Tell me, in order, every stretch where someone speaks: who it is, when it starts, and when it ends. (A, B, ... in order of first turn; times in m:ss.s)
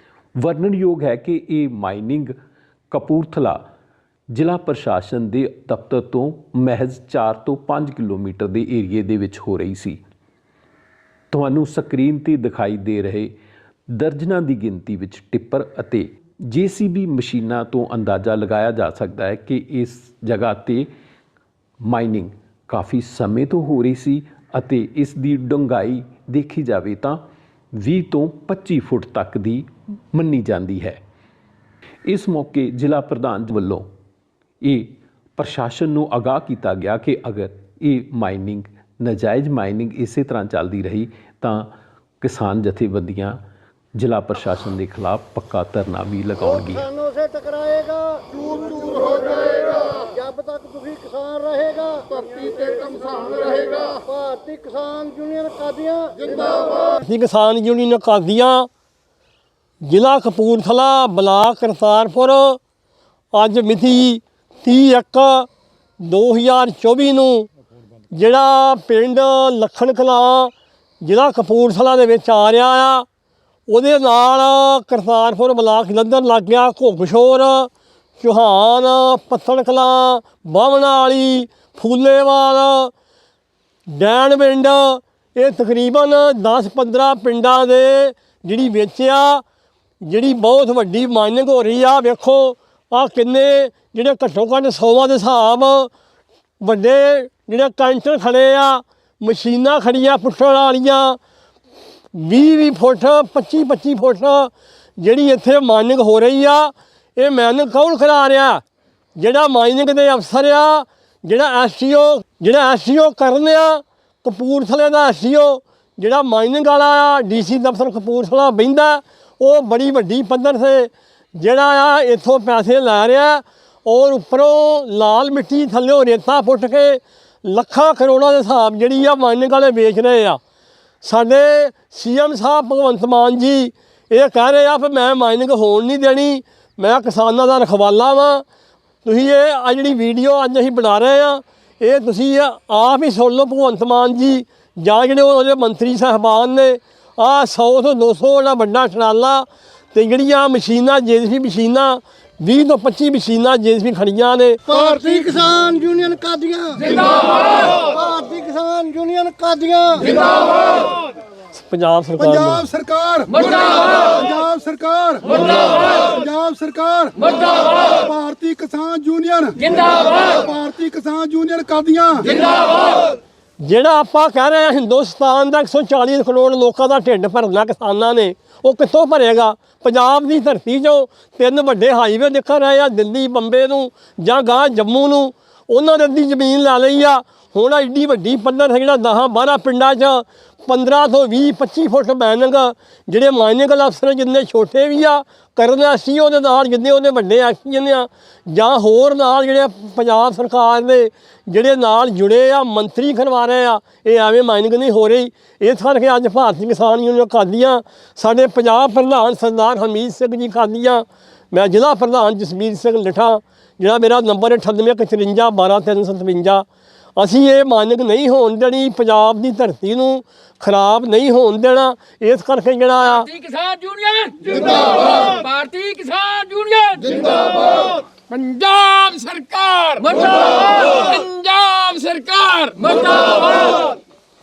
0:00.4-0:02.4 A
0:02.9-0:03.6 A
0:04.3-0:10.0 A
0:11.3-0:13.3 A
0:13.9-0:20.9 A
0:21.8-0:27.2 A
0:27.7-0:31.0 A
0:32.1-0:33.9 A
0:34.6-0:43.4 A
0:44.0-0:46.9 A
0:46.9-0:56.7 B
0:48.3-0:49.3 C
0:52.6-0:53.4 C
0:56.2-0:56.4 C
0:56.8-0:58.7 D
0:59.8-1:02.6 D
1:03.3-1:05.5 D
1:06.0-1:07.5 D
1:08.1-1:13.1 D
1:13.7-1:22.9 D
1:23.9-1:29.4 D
1:30.0-1:35.9 D
1:36.6-1:41.2 D
1:42.1-1:48.6 D
1:49.2-2:10.4 D
2:11.0-2:18.4 D
2:19.0-2:34.9 D
2:34.8-2:35.3 C
2:35.2-2:36.8 B
2:36.8-2:37.1 C
2:37.6-2:40.2 B
2:41.5-2:42.6 D
2:42.2-2:52.6 C
2:53.6-3:36.6 D
3:37.2-3:43.3 D
3:43.3-3:53.9 E